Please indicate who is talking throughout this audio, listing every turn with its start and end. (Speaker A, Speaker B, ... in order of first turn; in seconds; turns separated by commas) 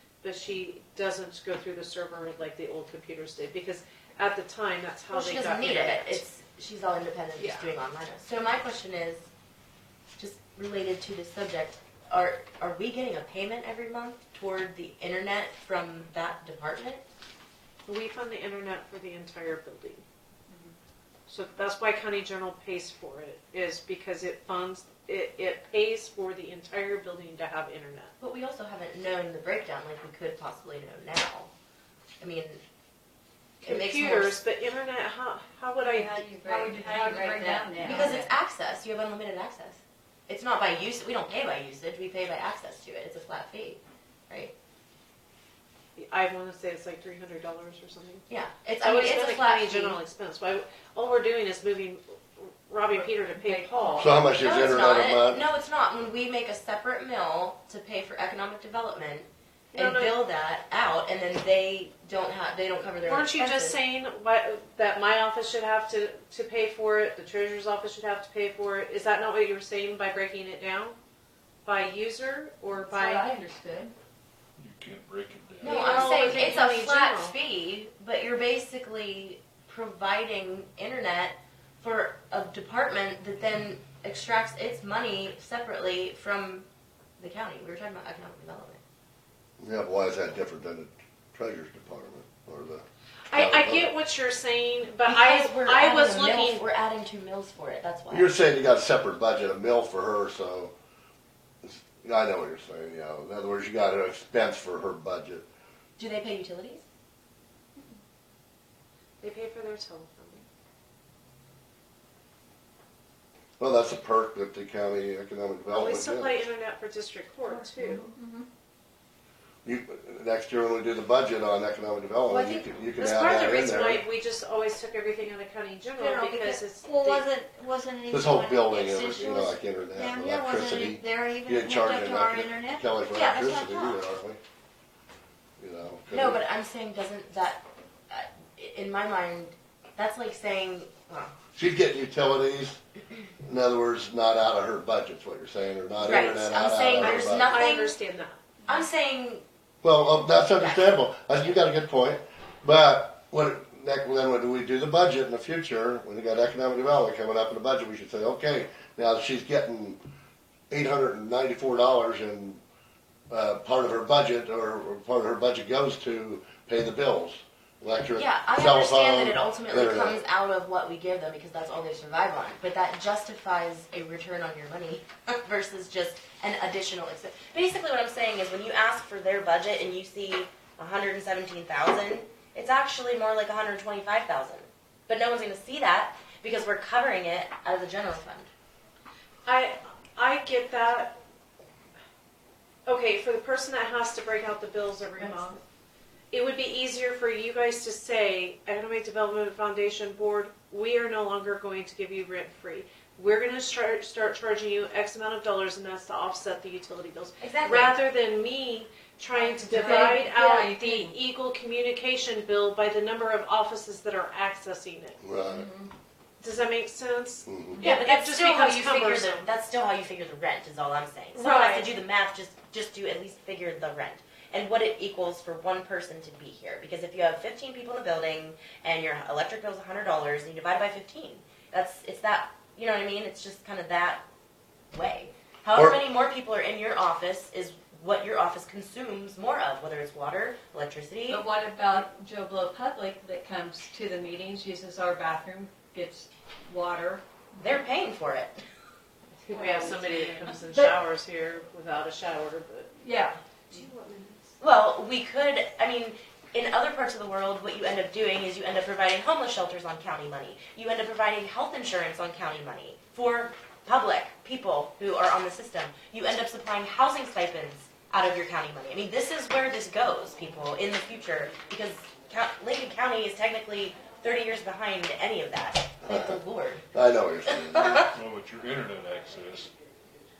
Speaker A: 0.2-6.2, Speaker B: 5.1-9.3, Speaker C: 7.4-7.7, Speaker B: 10.2-17.0, Speaker A: 17.9-20.0, Speaker A: 21.3-28.1, Speaker B: 28.2-31.5, Speaker B: 32.2-32.6, Speaker A: 33.6-37.0, Speaker B: 33.6-34.4, Speaker C: 35.8-38.3, Speaker D: 36.2-38.2, Speaker B: 37.8-44.5, Speaker A: 46.0-48.3, Speaker B: 48.3-50.0, Speaker A: 48.8-54.3, Speaker C: 53.4-54.1, Speaker E: 54.0-55.4, Speaker B: 54.4-63.8, Speaker A: 59.7-60.2, Speaker A: 63.0-71.0, Speaker A: 71.7-73.3, Speaker C: 72.9-73.9, Speaker D: 73.3-73.9, Speaker F: 74.6-76.6, Speaker A: 75.6-77.3, Speaker B: 75.6-86.7, Speaker B: 87.2-88.8, Speaker E: 89.6-93.9, Speaker A: 93.3-96.7, Speaker B: 95.0-98.3, Speaker E: 98.1-100.7, Speaker E: 101.7-105.5, Speaker B: 106.0-106.8, Speaker A: 109.2-110.5, Speaker E: 113.6-116.4, Speaker A: 115.7-118.0, Speaker C: 117.9-118.5, Speaker E: 119.6-124.0, Speaker A: 122.3-127.3, Speaker C: 126.0-134.0, Speaker E: 128.1-134.4, Speaker E: 135.6-136.4, Speaker B: 136.1-141.3, Speaker E: 141.6-142.8, Speaker E: 143.4-147.7, Speaker B: 146.0-147.9, Speaker A: 147.0-148.4, Speaker B: 148.7-149.4, Speaker E: 149.8-160.0, Speaker B: 150.6-151.0, Speaker E: 160.7-162.6, Speaker E: 163.3-170.2, Speaker B: 168.2-188.5, Speaker A: 189.5-191.2, Speaker A: 192.9-195.6, Speaker B: 195.2-195.6, Speaker A: 196.3-215.2, Speaker B: 207.4-208.0, Speaker C: 209.4-211.2, Speaker E: 215.2-215.7, Speaker C: 215.5-215.9, Speaker A: 216.4-219.5, Speaker E: 217.5-217.8, Speaker B: 217.8-234.2, Speaker A: 221.3-221.9, Speaker B: 234.9-241.4, Speaker D: 241.3-247.2, Speaker B: 247.6-248.6, Speaker A: 249.5-252.9, Speaker C: 249.5-249.9, Speaker D: 253.0-253.4, Speaker A: 253.7-254.4, Speaker B: 254.6-276.9, Speaker E: 276.1-276.4, Speaker E: 276.9-278.1, Speaker B: 277.5-278.1, Speaker F: 278.0-279.7